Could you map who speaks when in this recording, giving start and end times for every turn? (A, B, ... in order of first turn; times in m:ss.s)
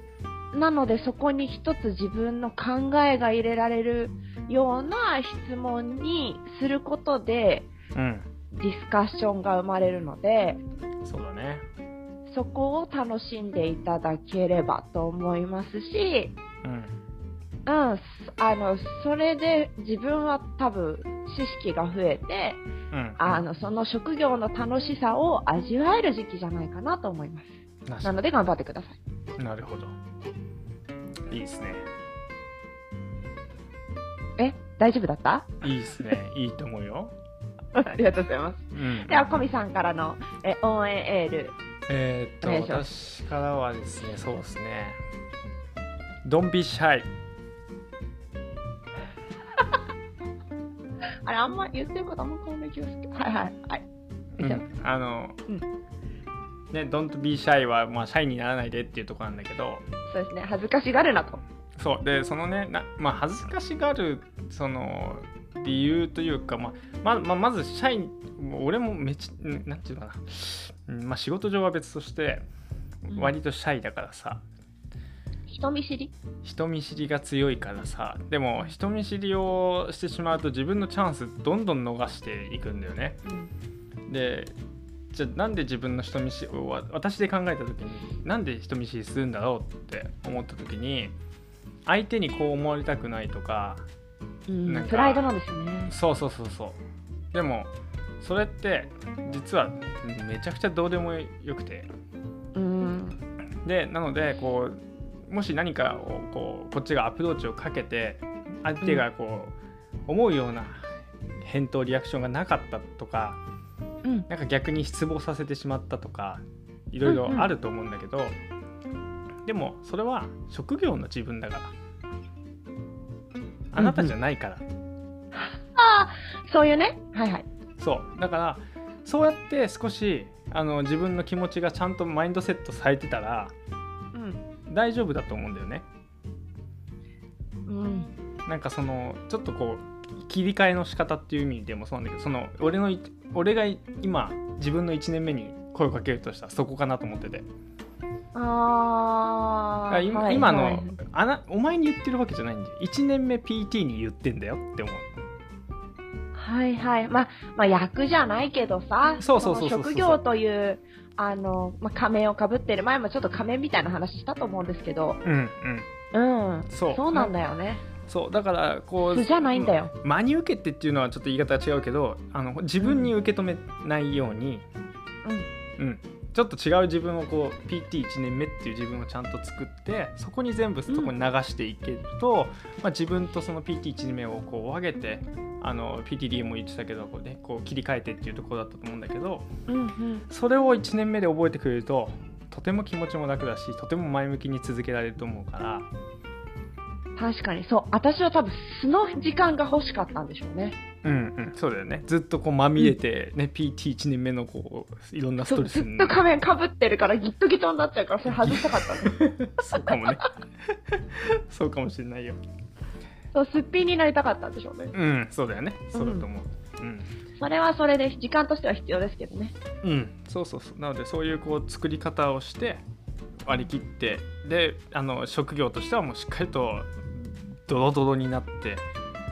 0:00.5-0:07.7 A
0:07.9-0:08.3 B
0:08.5-0:10.6 A
0:11.0-0:11.6 B
0:12.3-0:16.4 A
0:16.6-0:16.9 B
0:17.6-0:22.6 A
0:22.9-0:23.4 B
0:23.2-0:27.5 A
0:27.9-0:28.2 B
0:28.0-0:29.0 A
0:29.4-0:29.9 B
0:31.3-0:31.8 B
0:34.4-0:35.5 A
0:35.6-0:37.1 B
0:37.7-0:41.5 A
0:38.7-0:39.4 B
0:41.9-0:45.0 B
0:42.4-0:42.8 A
0:46.2-0:47.1 B
0:51.2-0:53.8 A
0:54.4-0:55.4 B
0:56.7-0:59.8 B
1:00.1-1:01.4 A
1:01.8-1:12.4 B
1:13.1-1:14.4 B
1:15.5-1:16.1 A
1:16.4-1:23.2 B
1:23.2-1:23.5 A
1:24.1-1:24.5 B
1:25.1-1:31.1 B
1:31.8-1:33.8 B
1:34.5-1:35.9 A
1:34.6-1:35.2 B
1:35.9-1:36.8 B
1:37.3-1:41.9 B
1:42.5-1:43.2 A
1:43.6-1:49.5 B
1:50.1-1:50.8 B
1:51.4-1:53.4 B
1:54.3-1:58.4 B
1:57.0-1:57.5 A
1:59.4-2:01.7 B
2:03.7-2:04.6 B
2:03.8-2:04.1 A
2:05.4-2:07.4 A
2:07.8-2:13.5 B
2:14.1-2:14.4 A
2:14.7-2:15.8 B
2:17.6-2:18.1 A
2:18.4-2:27.5 B
2:28.3-2:31.0 A
2:29.9-2:35.1 B
2:36.3-2:45.2 A
2:39.2-2:40.2 B
2:45.2-2:45.9 B
2:46.1-2:47.8 A
2:46.7-2:47.3 B
2:48.0-2:54.6 B
2:49.1-2:49.9 A
2:52.8-2:53.1 A
2:55.8-3:09.5 B
3:09.7-3:10.2 A
3:10.3-3:15.9 B
3:17.2-3:20.8 A
3:21.0-3:26.2 B
3:25.4-3:29.2 A
3:28.2-3:30.2 B
3:29.7-3:30.1 A
3:30.9-3:32.4 B
3:33.3-3:34.9 A
3:34.9-3:37.1 B
3:35.9-3:36.2 A
3:37.4-3:39.5 A
3:39.8-3:42.8 B
3:43.4-3:48.8 B